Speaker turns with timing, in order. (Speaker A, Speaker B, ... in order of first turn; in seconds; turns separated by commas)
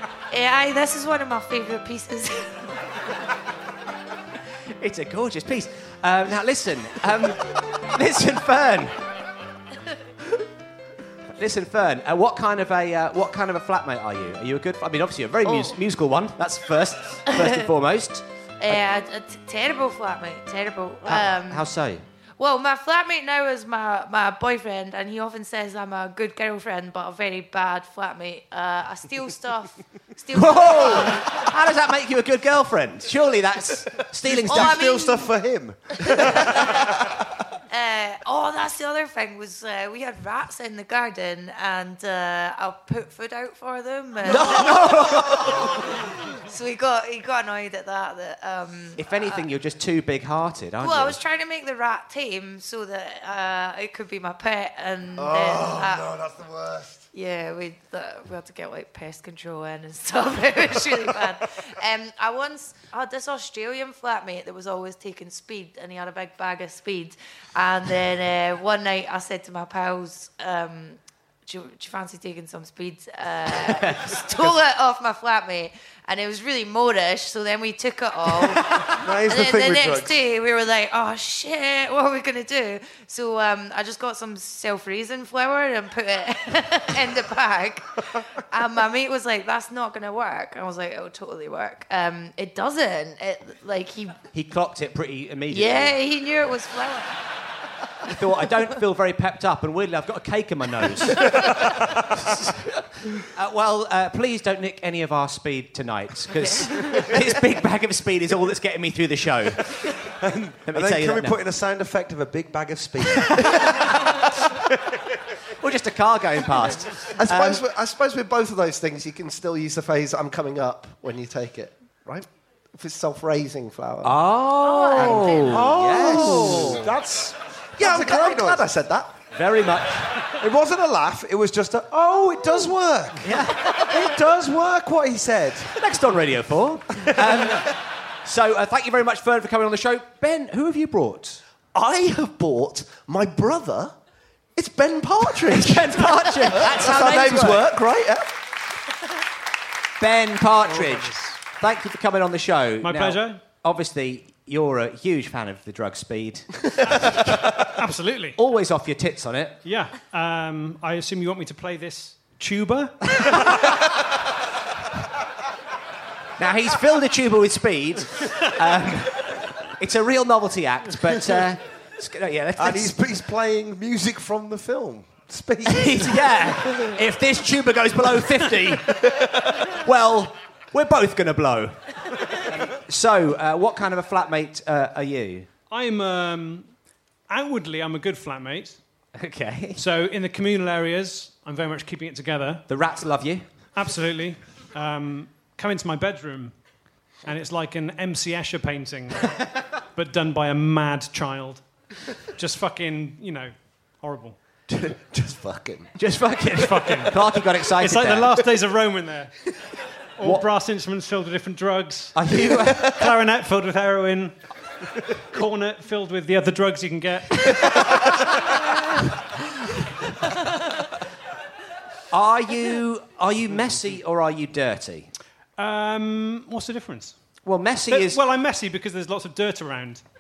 Speaker A: 0.3-2.6, Speaker B: 4.8-9.0, Speaker B: 11.4-18.2, Speaker A: 15.5-15.8, Speaker A: 18.6-21.7, Speaker B: 21.1-22.0, Speaker A: 22.4-31.5, Speaker B: 30.3-34.9, Speaker C: 34.3-37.2, Speaker A: 34.4-35.3, Speaker A: 36.0-37.0, Speaker A: 37.7-49.5, Speaker B: 44.3-45.7, Speaker B: 49.0-51.2, Speaker A: 50.8-56.1, Speaker C: 55.2-57.1, Speaker A: 57.1-94.2, Speaker B: 73.5-74.3, Speaker C: 78.9-80.2, Speaker B: 94.3-96.0, Speaker A: 95.5-97.1, Speaker B: 98.0-109.9, Speaker A: 106.3-107.1, Speaker C: 110.0-114.3, Speaker B: 110.7-111.4, Speaker B: 113.2-114.1, Speaker B: 115.6-117.6, Speaker D: 117.1-124.2, Speaker B: 124.0-126.9, Speaker A: 124.6-125.6, Speaker D: 125.0-129.1, Speaker C: 125.5-127.0, Speaker C: 127.8-128.7, Speaker B: 129.3-130.2, Speaker C: 130.3-135.7, Speaker B: 133.2-134.0, Speaker B: 135.8-141.4, Speaker C: 137.1-137.7, Speaker D: 141.7-143.9, Speaker D: 144.6-148.3, Speaker B: 145.5-147.7, Speaker B: 150.0-156.5, Speaker E: 150.7-151.4, Speaker E: 152.8-153.4, Speaker E: 156.9-158.4, Speaker B: 158.4-159.6, Speaker E: 159.7-163.8, Speaker B: 166.4-172.9, Speaker C: 172.6-177.0, Speaker B: 175.7-185.5, Speaker E: 185.7-186.7, Speaker E: 187.3-188.8, Speaker B: 189.2-189.8, Speaker E: 189.8-192.7, Speaker B: 192.7-193.5, Speaker E: 193.8-196.6, Speaker E: 197.2-201.7, Speaker E: 202.2-204.4, Speaker D: 204.7-205.9, Speaker B: 206.0-208.3, Speaker E: 206.6-209.3, Speaker E: 210.2-214.4, Speaker B: 212.1-213.0, Speaker E: 215.3-218.4, Speaker B: 222.1-225.1, Speaker E: 225.6-227.2, Speaker B: 227.5-228.2, Speaker E: 227.9-230.0